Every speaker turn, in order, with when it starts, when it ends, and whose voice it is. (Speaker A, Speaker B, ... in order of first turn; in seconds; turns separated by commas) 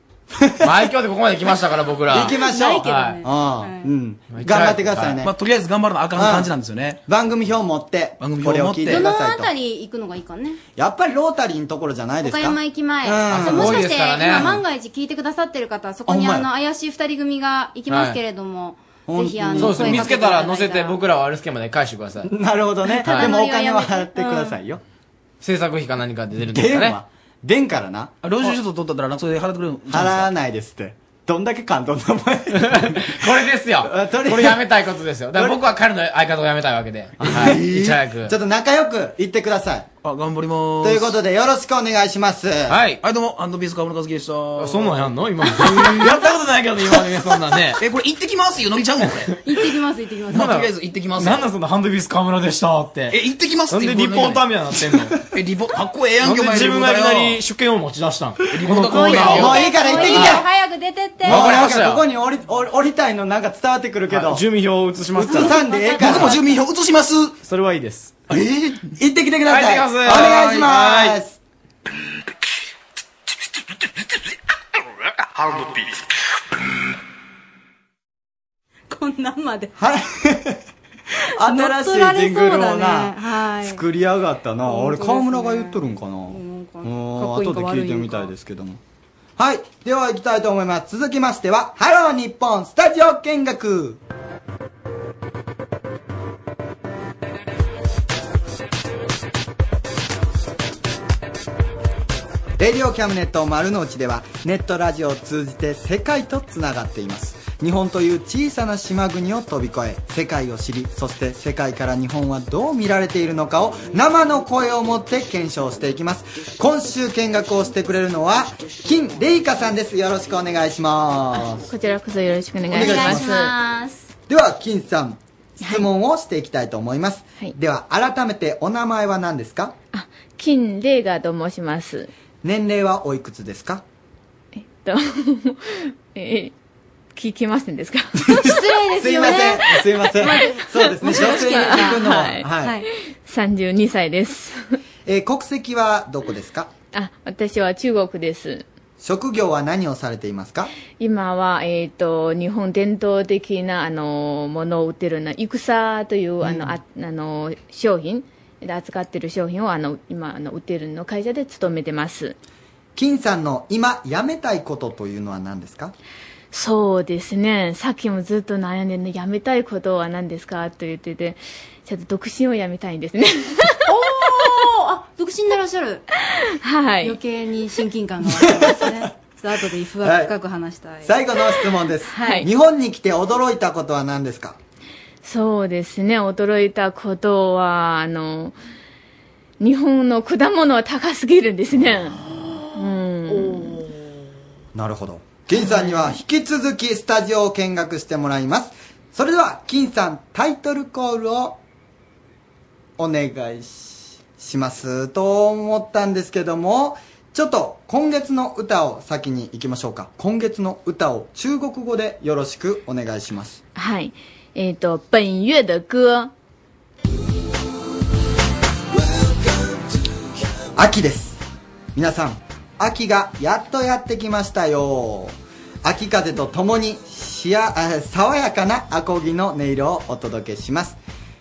Speaker A: 0.4-0.9, Speaker B: 0.6-3.2, Speaker A: 2.1-5.3, Speaker C: 2.1-3.9, Speaker B: 4.3-5.2, Speaker D: 5.2-7.0, Speaker A: 6.1-6.5, Speaker A: 7.0-9.5, Speaker D: 8.2-9.0, Speaker C: 8.8-10.6, Speaker A: 10.8-14.6, Speaker C: 12.2-21.0, Speaker B: 13.3-14.5, Speaker A: 16.1-16.5, Speaker B: 17.9-18.2, Speaker A: 19.1-20.1, Speaker B: 19.5-22.3, Speaker A: 22.2-24.8, Speaker C: 23.0-24.6, Speaker B: 23.0-23.3, Speaker B: 25.4-27.0, Speaker A: 26.5-28.6, Speaker D: 28.2-30.3, Speaker A: 29.9-34.6, Speaker B: 32.5-38.3, Speaker A: 35.3-35.6, Speaker A: 37.2-39.9, Speaker D: 37.4-37.8, Speaker D: 40.0-41.1, Speaker A: 40.8-42.8, Speaker B: 42.7-43.0, Speaker D: 43.0-46.2, Speaker B: 44.6-47.8, Speaker D: 47.8-49.4, Speaker C: 49.4-50.6, Speaker D: 50.3-51.5, Speaker B: 50.4-53.2, Speaker D: 53.1-54.5, Speaker B: 53.7-55.1, Speaker D: 55.3-57.4, Speaker B: 56.2-60.4, Speaker D: 58.5-59.7, Speaker C: 58.9-61.5, Speaker A: 59.3-60.4, Speaker A: 61.2-64.4, Speaker B: 61.3-62.0, Speaker B: 64.1-65.5, Speaker A: 65.2-66.4, Speaker C: 65.2-66.5, Speaker D: 66.0-67.4, Speaker B: 67.4-68.1, Speaker D: 68.3-68.9, Speaker A: 69.0-71.4, Speaker B: 69.5-71.2, Speaker D: 70.0-70.7, Speaker C: 78.9-79.7, Speaker A: 79.8-80.6, Speaker A: 81.4-88.8, Speaker C: 81.4-83.8, Speaker C: 84.7-88.3, Speaker A: 89.4-94.0, Speaker A: 102.6-121.6, Speaker E: 121.7-123.5, Speaker A: 122.7-123.3, Speaker C: 122.7-124.1, Speaker A: 124.3-129.7, Speaker E: 125.6-125.9, Speaker E: 129.9-132.1, Speaker A: 132.4-133.8, Speaker E: 134.6-136.5, Speaker E: 137.1-138.2, Speaker A: 138.3-142.8, Speaker C: 138.4-142.1, Speaker E: 141.0-142.6, Speaker E: 143.2-144.6, Speaker A: 145.1-146.7, Speaker E: 146.9-148.7, Speaker A: 149.0-150.7, Speaker E: 151.0-162.4, Speaker A: 156.4-156.8, Speaker A: 162.9-165.9, Speaker E: 166.5-173.8, Speaker C: 173.9-176.0, Speaker E: 176.6-177.2, Speaker C: 177.0-181.2, Speaker A: 178.2-179.1, Speaker A: 180.0-180.3, Speaker A: 181.0-184.6, Speaker C: 182.2-182.4, Speaker E: 182.2-182.4, Speaker E: 185.2-188.6, Speaker E: 189.6-193.8, Speaker A: 194.7-201.6, Speaker A: 203.0-213.6, Speaker E: 213.7-216.3, Speaker A: 220.8-221.4, Speaker A: 221.9-231.0